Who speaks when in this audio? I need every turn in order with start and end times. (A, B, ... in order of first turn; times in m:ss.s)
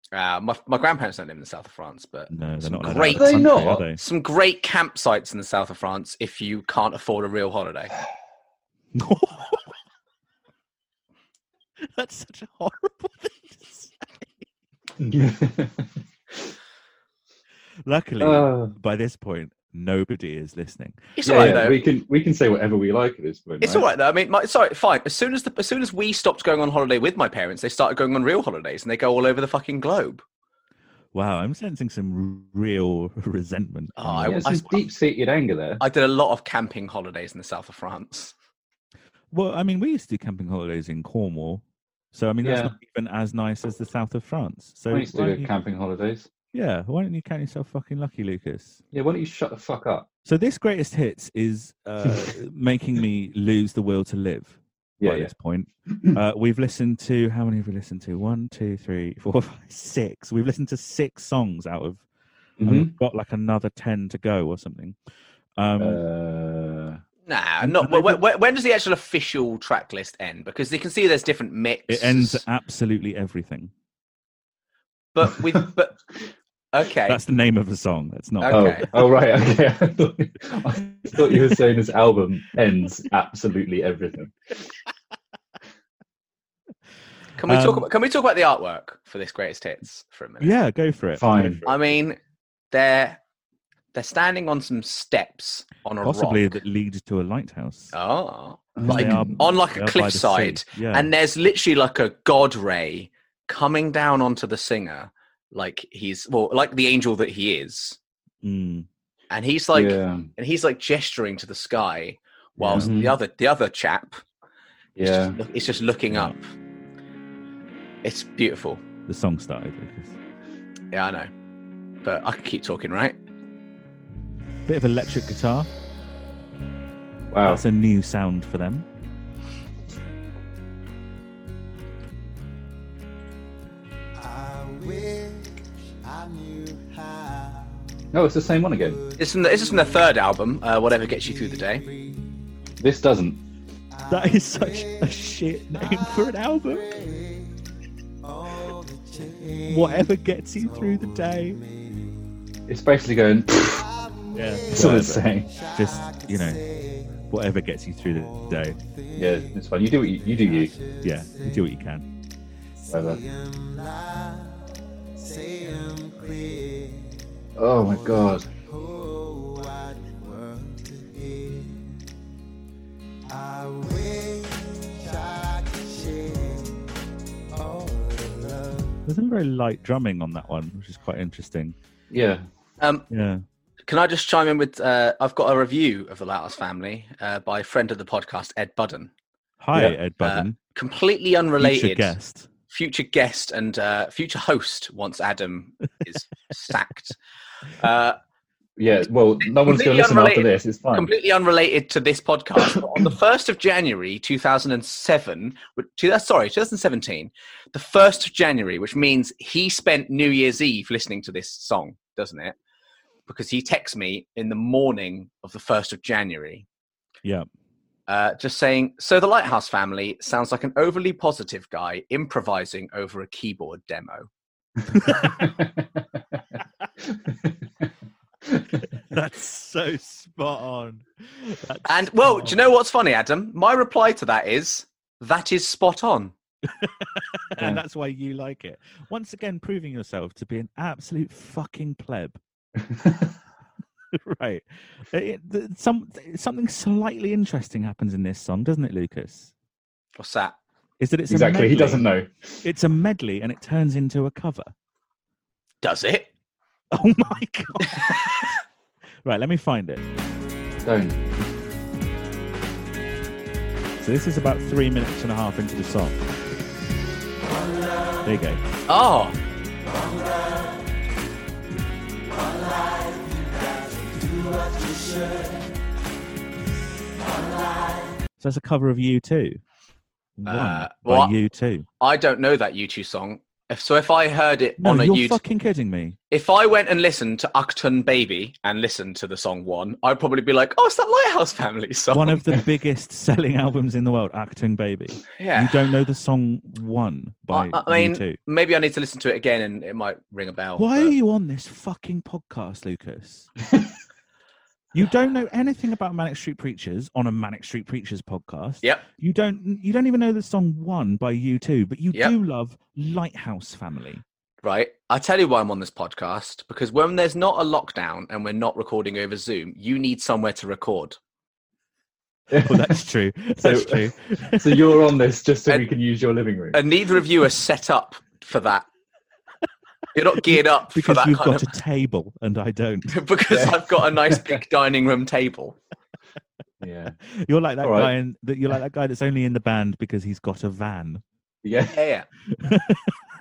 0:00.1-0:08.0 A
0:02.3-0:04.0 B
0:03.1-0:03.8 C
0:08.9-0:09.7 B
0:11.9-0:14.3 B
0:15.0-0:15.9 C
0:17.9-0:21.5 B
0:18.2-0:18.7 C
0:21.2-0:21.8 A
0:21.2-0:23.9 C
0:23.6-0:30.2 A
0:31.1-0:34.5 B
0:34.0-0:34.8 A
0:34.2-0:35.8 C
0:35.8-0:38.3 A
0:39.3-0:45.5 B
0:42.4-0:42.7 C
0:44.9-0:46.3 C
0:46.5-0:48.8 B
0:48.9-0:50.1 C
0:50.2-1:02.0 B
0:55.0-0:55.3 C
1:02.6-1:02.9 C
1:02.6-1:05.0 B
1:05.6-1:06.0 B
1:05.8-1:07.0 C
1:07.3-1:12.4 A
1:07.6-1:08.2 B
1:11.9-1:13.7 B
1:15.1-1:16.0 A
1:15.3-1:15.6 C
1:16.7-1:17.2 A
1:17.1-1:18.9 B
1:18.4-1:18.9 A
1:18.5-1:24.3 C
1:27.4-1:30.6 A
1:27.4-1:27.9 B
1:30.4-1:31.8 B
1:31.2-1:31.6 C
1:31.6-1:32.2 A
1:32.7-1:33.2 A
1:33.9-1:36.6 A
1:36.0-1:38.0 B
1:37.9-1:48.0 A
1:38.8-1:39.4 C
1:38.8-1:41.1 B
1:48.4-1:48.9 B
1:49.3-1:54.2 A
1:49.7-1:50.3 C
1:52.6-1:52.9 B
1:52.7-1:53.2 C
1:55.0-1:55.4 C
1:55.0-1:56.5 A
1:58.0-1:58.8 A
1:59.1-2:00.2 B
2:00.9-2:01.3 A
2:02.0-2:03.2 A
2:04.7-2:05.7 B
2:07.3-2:07.6 C
2:07.4-2:08.9 B
2:14.2-2:18.1 D
2:18.1-2:19.0 C
2:18.7-2:20.2 D
2:19.2-2:21.9 A
2:20.9-2:22.5 D
2:22.8-2:23.4 C
2:23.9-2:32.6 D
2:24.1-2:26.9 B
2:29.7-2:31.6 B
2:32.7-2:33.8 C
2:33.6-2:37.3 D
2:34.3-2:36.6 B
2:34.7-2:35.5 C
2:37.3-2:38.8 B
2:38.0-2:41.8 D
2:39.2-2:40.7 C
2:41.0-2:42.0 B
2:42.8-2:52.1 D
2:42.9-2:43.2 C
2:47.6-2:48.5 C
2:53.3-2:56.9 D
2:57.5-2:59.0 D
2:59.1-3:01.8 B
3:02.1-3:02.4 C
3:02.8-3:03.1 A
3:03.1-3:03.4 B
3:03.9-3:09.1 A
3:09.6-3:10.6 B
3:10.2-3:12.2 A
3:11.6-3:12.5 B
3:12.7-3:17.2 A
3:17.8-3:18.2 A
3:18.8-3:21.1 C
3:19.4-3:32.6 A
3:33.3-3:36.7 A
3:38.1-3:44.3 A
3:44.9-3:45.5 B
3:45.4-3:45.8 C
3:47.2-3:47.5 C
3:48.9-3:52.6 B
3:51.9-3:56.3 A
3:56.8-4:02.4 B
4:02.8-4:03.4 C
4:04.1-4:09.5 B
4:10.2-4:10.6 A
4:11.0-4:12.1 B
4:11.3-4:12.3 C
4:12.6-4:14.7 B
4:15.8-4:16.3 A
4:16.9-4:18.3 B
4:19.2-4:20.0 B
4:20.8-4:21.2 C
4:24.0-4:26.2 B
4:28.2-4:28.6 B
4:28.9-4:29.4 A
4:32.8-4:33.4 D
4:34.0-4:35.6 D
4:38.4-4:39.6 B
4:40.4-4:41.9 B
4:40.5-4:41.3 A
4:42.0-4:45.4 A
4:44.8-4:46.2 B
4:46.3-4:52.4 A
4:52.1-4:58.4 B
4:55.4-4:55.8 A
4:57.5-5:01.2 A
5:00.8-5:03.5 B
5:04.9-5:14.2 B
5:14.6-5:21.2 A
5:22.5-5:23.0 C
5:22.5-5:25.0 B
5:23.6-5:26.8 C
5:26.7-5:28.8 A
5:30.1-5:31.7 A
5:30.5-5:33.2 B
5:33.1-5:35.8 A
5:33.5-5:34.6 C
5:36.8-5:37.2 C
5:37.3-5:41.2 B
5:37.8-5:38.1 C
5:41.6-5:42.0 C
5:41.9-5:42.3 A
5:42.5-5:43.1 B